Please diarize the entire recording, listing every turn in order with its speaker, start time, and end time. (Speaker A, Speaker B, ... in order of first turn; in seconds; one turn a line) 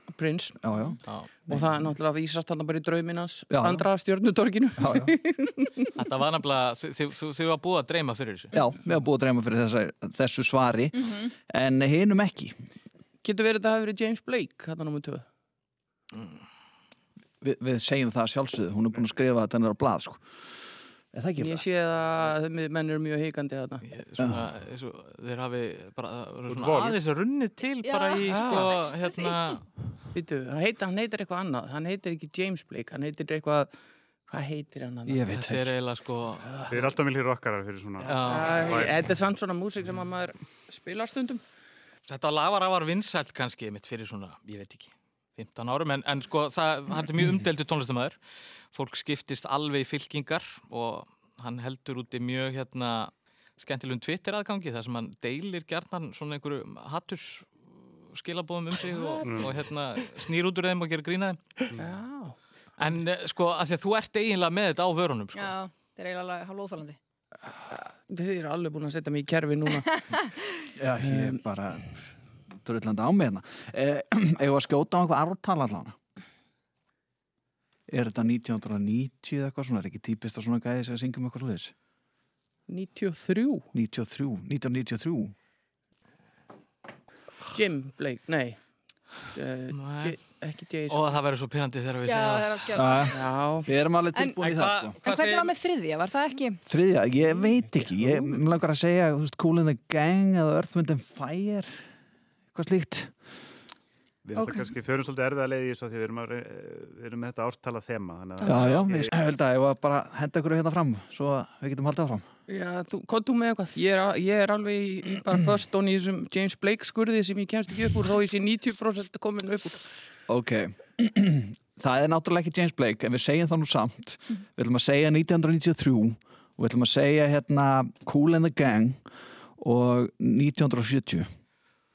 Speaker A: 0.1-0.6
Speaker B: 0.6-1.0
Speaker A: 1.5-5.9
Speaker B: 3.5-3.9
Speaker B: 4.8-5.1
Speaker C: 6.0-8.5
Speaker B: 8.5-12.6
Speaker D: 11.0-11.3
Speaker A: 13.2-15.3
Speaker C: 16.1-16.4
Speaker B: 17.4-20.5
Speaker B: 21.1-21.6
Speaker A: 21.4-23.9
Speaker C: 23.9-29.6
Speaker B: 24.2-24.5
Speaker E: 26.5-27.0
Speaker D: 27.8-29.3
Speaker A: 28.3-28.8
Speaker A: 30.1-33.7
Speaker A: 34.3-35.3
Speaker B: 35.1-35.7
Speaker C: 35.3-36.5
Speaker E: 36.7-39.0
Speaker C: 38.0-38.7
Speaker A: 38.2-41.4
Speaker C: 42.1-48.2
Speaker C: 48.7-61.4
Speaker E: 59.2-59.5
Speaker A: 61.7-62.4
Speaker C: 62.8-65.5
Speaker D: 65.4-67.0
Speaker A: 67.7-70.1
Speaker B: 70.8-71.9
Speaker A: 71.0-71.4
Speaker B: 72.6-76.0
Speaker B: 77.9-81.7
Speaker A: 82.7-83.7
Speaker B: 83.7-85.3
Speaker A: 87.5-91.2
Speaker C: 89.7-90.2
Speaker C: 90.9-92.6
Speaker D: 92.1-93.1
Speaker B: 92.8-95.0
Speaker A: 93.1-93.7
Speaker D: 94.2-94.4
Speaker C: 94.4-95.5
Speaker D: 95.0-96.6
Speaker B: 96.7-101.9
Speaker B: 102.5-103.2
Speaker E: 104.2-109.1
Speaker D: 104.4-104.7
Speaker B: 108.4-112.2
Speaker A: 112.5-119.9
Speaker B: 120.3-129.0
Speaker B: 129.6-131.3